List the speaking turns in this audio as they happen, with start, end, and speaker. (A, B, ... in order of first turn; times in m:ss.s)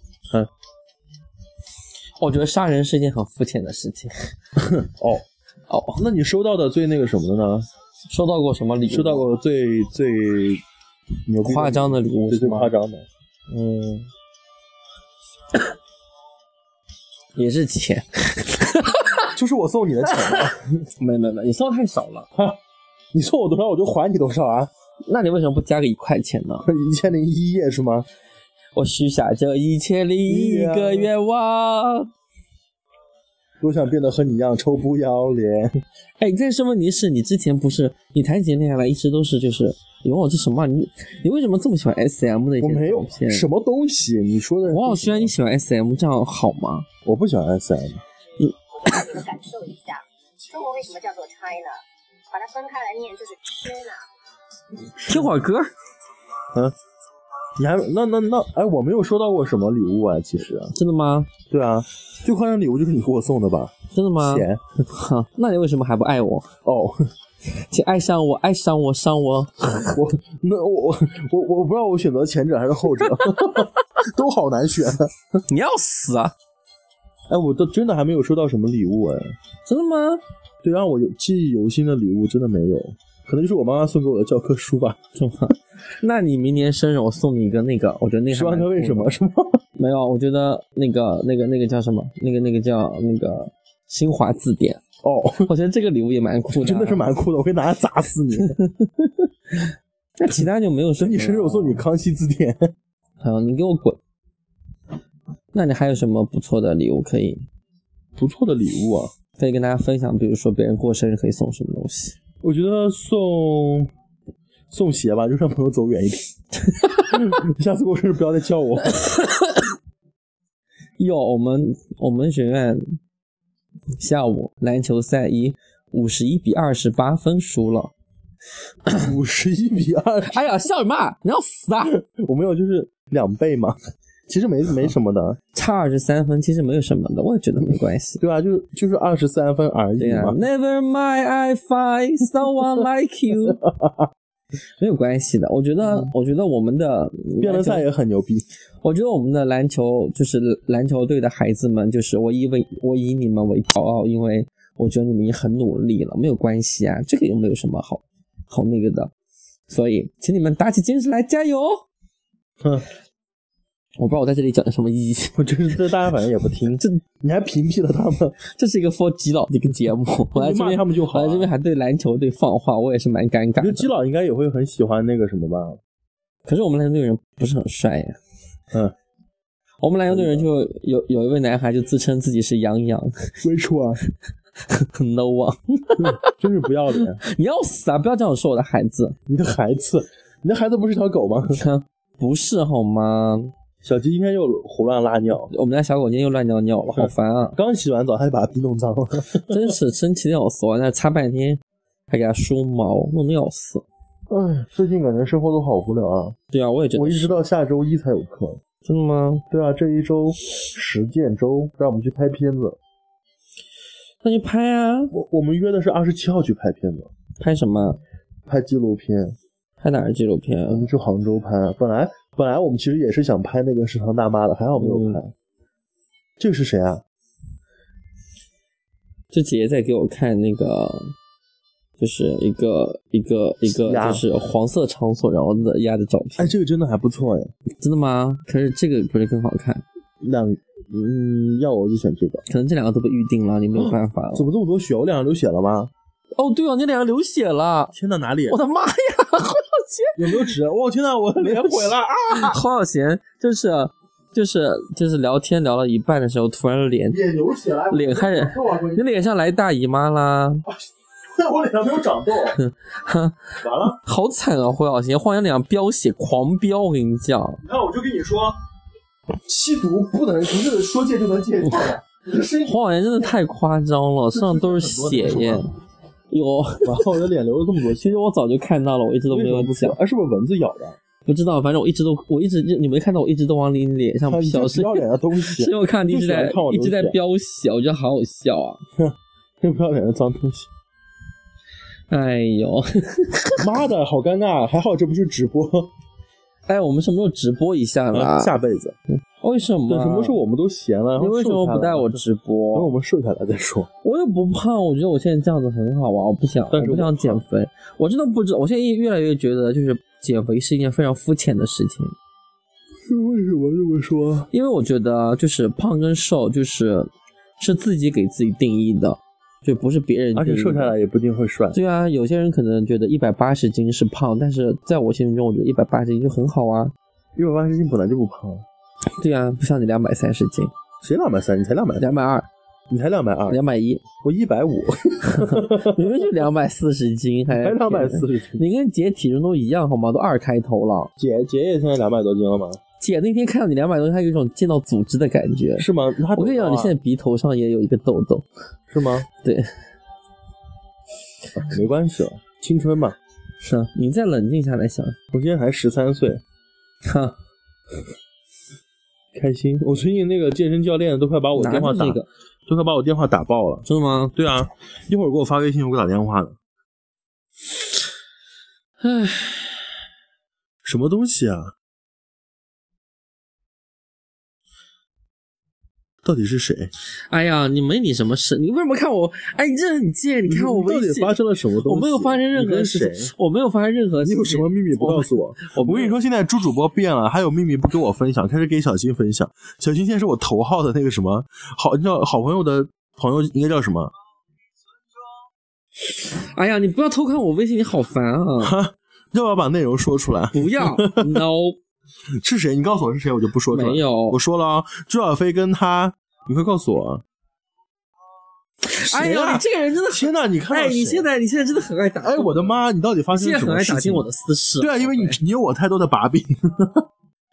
0:02.2-0:04.3 A
0:04.6-0:05.2 B
0:05.7-0:06.0 A
0:06.0-0:07.7 B
0:08.1-0:09.3 A
0:08.9-0:10.6 B
0:11.3-0:13.1 B
0:11.4-0:12.7 A
0:13.5-0:14.0 A
0:17.4-0:19.3 A
0:19.3-0:20.6 B
0:21.0-0:22.3 A
0:23.1-0:24.7 B
0:25.1-0:26.7 A
0:26.6-0:28.1 B
0:28.8-0:32.1 A
0:30.3-0:31.1 B
0:33.6-0:35.8 B
0:36.2-0:43.5 A
0:42.6-0:45.3 B
0:44.7-0:46.9 A
0:47.0-0:48.0 B
0:48.9-0:51.8 C
0:52.3-0:54.0 C
0:55.0-0:55.7 A
0:57.6-1:00.7 B
1:00.7-1:01.3 A
1:01.5-1:04.6 B
1:03.9-1:06.5 A
1:06.6-1:07.1 B
1:07.6-1:10.0 A
1:09.8-1:15.1 B
1:13.0-1:13.7 A
1:15.5-1:16.3 A
1:17.3-1:19.4 B
1:19.7-1:20.2 A
1:20.6-1:25.0 B
1:25.2-1:29.2 A
1:28.3-1:29.6 B
1:29.8-1:34.8 A
1:35.0-1:35.5 B
1:35.4-1:37.0 A
1:36.5-1:38.6 B
1:40.2-1:41.8 A
1:41.0-1:42.7 B
1:43.2-1:44.0 A
1:45.5-1:47.5 A
1:48.2-1:49.1 B
1:49.4-1:52.2 A
1:52.4-1:53.9 B
1:54.7-1:56.3 B
1:56.7-1:57.1 A
1:57.1-1:59.1 B
1:58.9-1:59.7 A
2:01.0-2:03.0 A
2:04.0-2:07.9 A
2:09.0-2:10.4 B
2:10.3-2:12.0 A
2:11.8-2:13.8 B
2:14.3-2:15.4 B
2:15.5-2:18.2 A
2:18.2-2:20.4 B
2:20.0-2:23.6 A
2:23.5-2:24.1 B
2:24.8-2:27.8 A
2:25.8-2:26.1 B
2:27.4-2:28.5 B
2:28.8-2:39.1 A
2:39.7-2:41.8 A
2:42.6-2:42.9 B
2:44.0-2:45.4 A
2:45.4-2:48.4 B
2:48.5-2:53.9 A
2:50.3-2:51.5 B
2:53.6-2:55.8 B
2:56.5-2:58.2 A
2:59.8-3:03.3 A
3:00.1-3:00.5 B
3:03.4-3:04.0 B
3:04.7-3:06.3 A
3:06.0-3:07.2 B
3:07.1-3:09.2 A
3:09.3-3:11.6 B
3:11.5-3:13.5 A
3:13.8-3:15.5 B
3:15.5-3:17.6 A
3:17.0-3:19.8 B
3:19.5-3:23.8 A
3:24.3-3:26.4 B
3:26.5-3:27.4 A
3:27.0-3:28.6 B
3:28.8-3:29.4 A
3:29.5-3:32.8 B
3:34.2-3:35.1 A
3:35.1-3:37.1 B
3:37.4-3:38.0 A
3:38.5-3:39.4 B
3:39.8-3:40.9 A
3:40.7-3:45.3 B
3:44.8-3:45.2 A
3:46.4-3:47.0 B
3:49.3-3:51.1 A
3:52.0-3:56.6 A
3:53.7-3:54.2 B
3:56.4-3:57.5 B
3:57.8-3:59.8 A
4:00.2-4:02.4 B
4:02.5-4:04.5 A
4:03.8-4:05.9 B
4:06.4-4:07.9 A
4:07.9-4:08.6 B
4:08.5-4:10.5 A
4:10.2-4:12.6 B
4:11.4-4:17.2 A
4:17.1-4:19.1 B
4:17.9-4:20.6 A
4:21.3-4:22.6 B
4:22.6-4:27.6 A
4:23.6-4:24.0 B
4:27.6-4:28.6 B
4:29.5-4:32.8 B
4:31.7-4:31.9 A
4:32.6-4:35.7 A
4:34.3-4:35.7 B
4:36.3-4:37.0 A
4:36.8-4:38.1 B
4:38.0-4:40.0 A
4:39.3-4:41.0 B
4:41.3-4:48.8 A
4:44.3-4:47.2 B
4:49.0-4:50.7 B
4:52.1-4:53.7 A
4:53.6-4:55.9 B
4:56.7-4:58.5 A
4:58.1-4:59.0 B
4:59.4-5:00.4 A
4:59.9-5:02.2 B
5:01.2-5:02.9 A
5:02.7-5:03.9 B
5:04.0-5:12.2 A
5:06.7-5:07.4 B
5:13.1-5:14.5 B
5:14.5-5:20.9 A
5:20.4-5:21.8 B
5:21.7-5:26.9 A
5:27.4-5:28.6 B
5:29.2-5:30.7 A
5:31.0-5:32.0 B
5:32.0-5:32.5 A
5:32.9-5:33.6 B
5:33.5-5:34.0 A
5:34.2-5:36.3 B
5:35.2-5:41.1 A
5:37.5-5:38.6 B
5:41.2-5:42.8 B
5:43.0-5:48.5 A
5:45.8-5:47.0 B
5:48.9-5:49.3 B
5:49.4-5:49.7 A
5:51.6-5:53.2 B
5:53.6-5:55.2 A
5:55.3-5:56.4 B
5:57.0-5:57.4 A
5:59.3-6:06.6 B
6:01.6-6:02.3 A
6:03.9-6:04.3 A
6:09.0-6:09.7 A
6:10.8-6:11.7 B
6:16.2-6:16.9 B
6:17.3-6:26.2 A
6:20.5-6:23.3 B
6:24.2-6:34.1 B
6:36.0-6:38.8 A
6:38.6-6:41.4 B
6:40.5-6:41.8 A
6:42.4-6:47.2 B
6:43.7-6:44.4 A
6:48.8-6:52.8 A
6:49.0-6:51.3 B
6:52.2-6:54.3 B
6:53.3-6:55.4 A
6:54.8-6:57.1 B